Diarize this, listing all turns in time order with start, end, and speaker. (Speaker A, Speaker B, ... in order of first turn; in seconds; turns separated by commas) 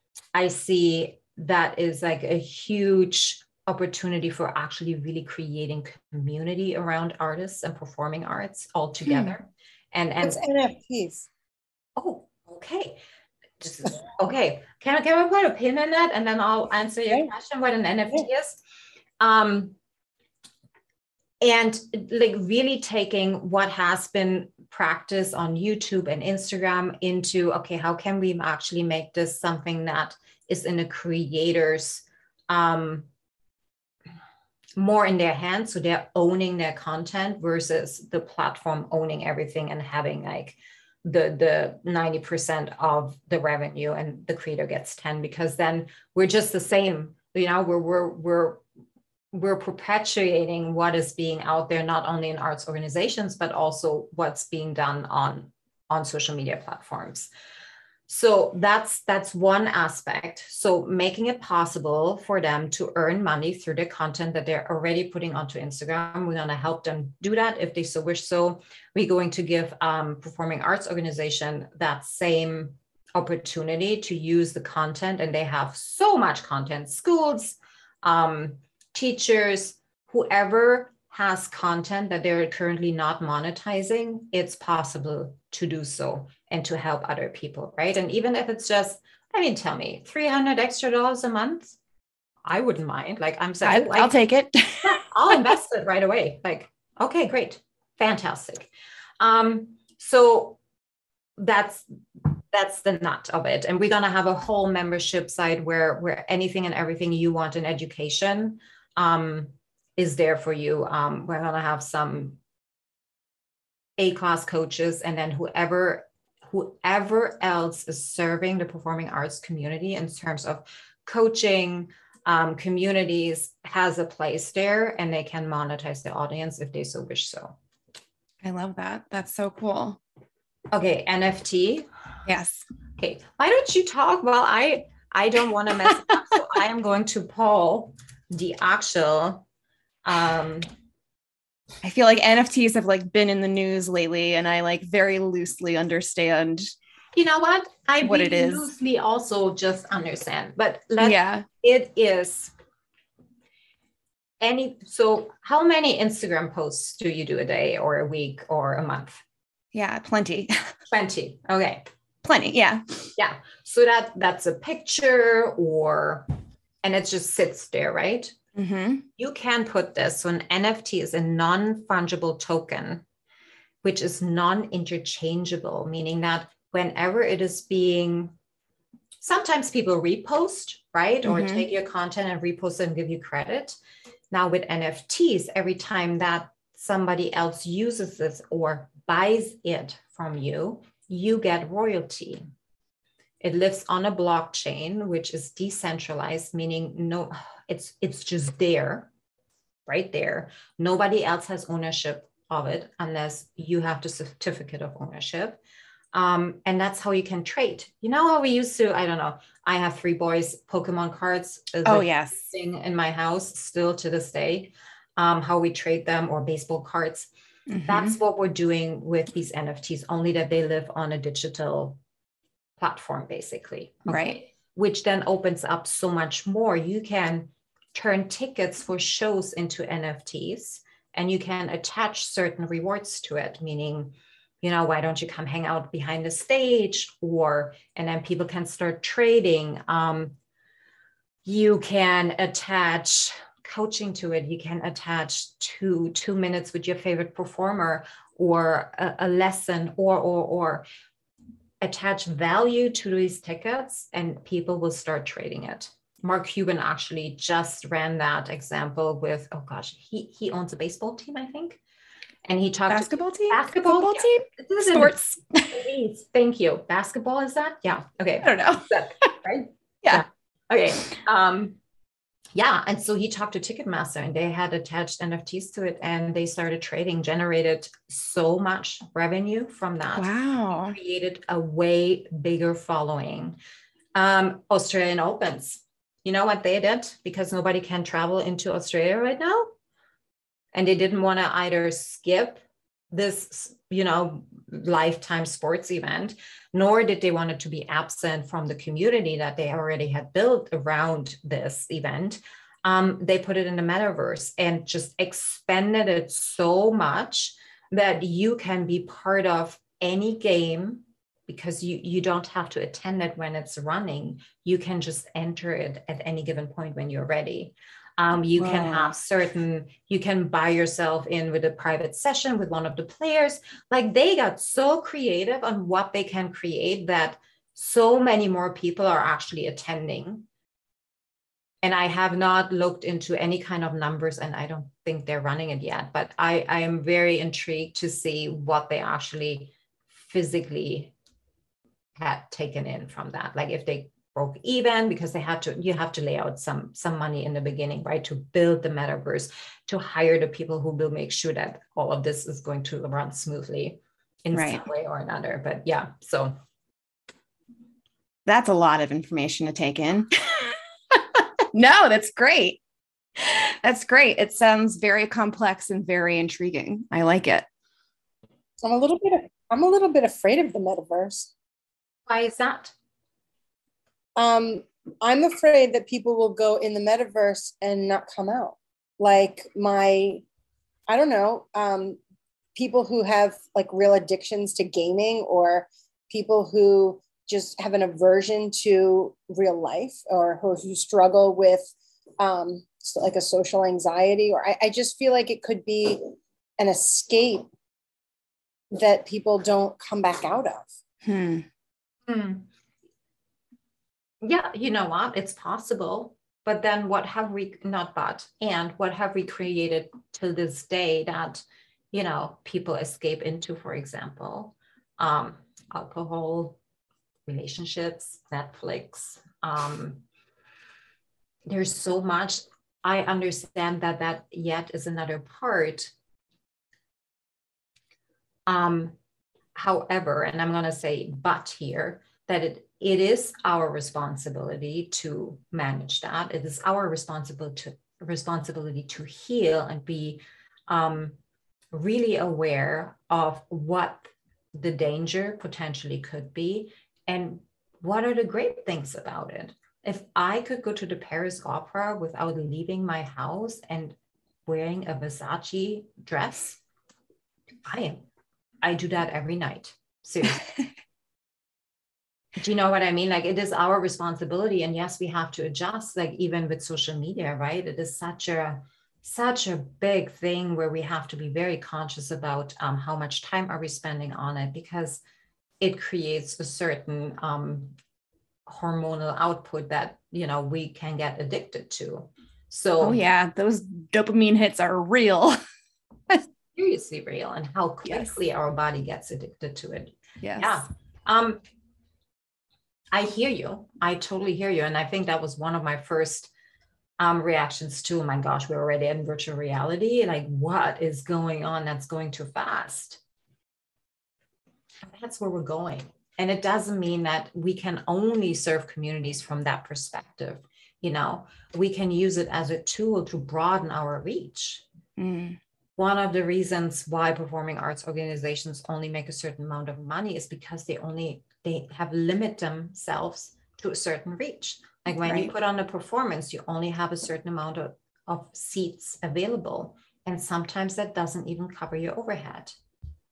Speaker A: 0.3-10.4, Speaker B: 9.1-9.3, Speaker C: 10.2-11.3, Speaker A: 11.9-13.0, Speaker A: 13.6-18.6, Speaker A: 19.2-19.8, Speaker A: 21.4-33.1, Speaker A: 34.8-48.6, Speaker A: 49.3-57.3, Speaker A: 58.1-91.8, Speaker A: 92.4-94.2, Speaker B: 93.6-95.4, Speaker A: 94.8-100.6, Speaker A: 101.4-112.4, Speaker A: 114.0-127.5, Speaker B: 128.4-130.0, Speaker A: 130.7-131.9, Speaker B: 132.3-132.6, Speaker A: 133.0-139.4, Speaker A: 140.0-140.7, Speaker B: 141.8-146.7, Speaker A: 147.1-152.5, Speaker B: 148.0-148.7, Speaker B: 151.0-151.4, Speaker A: 154.4-159.2, Speaker B: 159.7-160.7, Speaker A: 160.9-161.8, Speaker B: 162.2-163.1, Speaker A: 163.2-166.3, Speaker A: 166.8-168.3, Speaker B: 168.5-169.1, Speaker A: 169.2-173.0, Speaker A: 173.8-178.3, Speaker A: 179.2-183.8, Speaker B: 181.2-181.7, Speaker A: 184.3-192.4, Speaker A: 193.4-199.1, Speaker A: 199.9-205.6, Speaker A: 206.1-217.3, Speaker B: 211.8-212.4, Speaker B: 217.7-218.2, Speaker A: 217.8-222.0, Speaker A: 222.8-240.3, Speaker B: 224.1-224.4, Speaker A: 241.4-250.8, Speaker A: 251.8-261.8, Speaker A: 262.4-271.8, Speaker B: 262.9-265.8, Speaker B: 268.4-269.3, Speaker A: 272.5-283.6, Speaker B: 280.1-281.0, Speaker A: 284.1-289.7, Speaker A: 290.7-330.5, Speaker B: 318.6-319.1, Speaker A: 331.8-341.1, Speaker A: 342.2-356.5, Speaker B: 354.5-354.9, Speaker B: 358.4-362.8, Speaker B: 363.4-367.7, Speaker C: 368.8-371.5, Speaker A: 372.3-372.9, Speaker C: 374.4-380.4, Speaker C: 381.1-382.2, Speaker C: 382.7-397.7, Speaker C: 398.9-400.9, Speaker B: 401.2-401.6, Speaker A: 402.3-402.7, Speaker A: 404.4-416.8, Speaker A: 417.4-420.2, Speaker A: 421.7-426.1, Speaker A: 428.7-429.1, Speaker A: 429.7-441.4, Speaker A: 441.9-454.1, Speaker A: 454.7-456.8, Speaker A: 457.8-458.2, Speaker A: 458.8-460.7, Speaker A: 462.6-475.2, Speaker A: 475.8-477.9, Speaker A: 478.7-483.2, Speaker B: 483.0-485.6, Speaker A: 486.7-491.6, Speaker B: 488.0-488.3, Speaker B: 490.4-490.8, Speaker A: 493.1-496.5, Speaker A: 497.2-503.2, Speaker A: 505.0-514.8, Speaker B: 515.2-515.6, Speaker A: 516.0-532.8, Speaker B: 525.2-525.5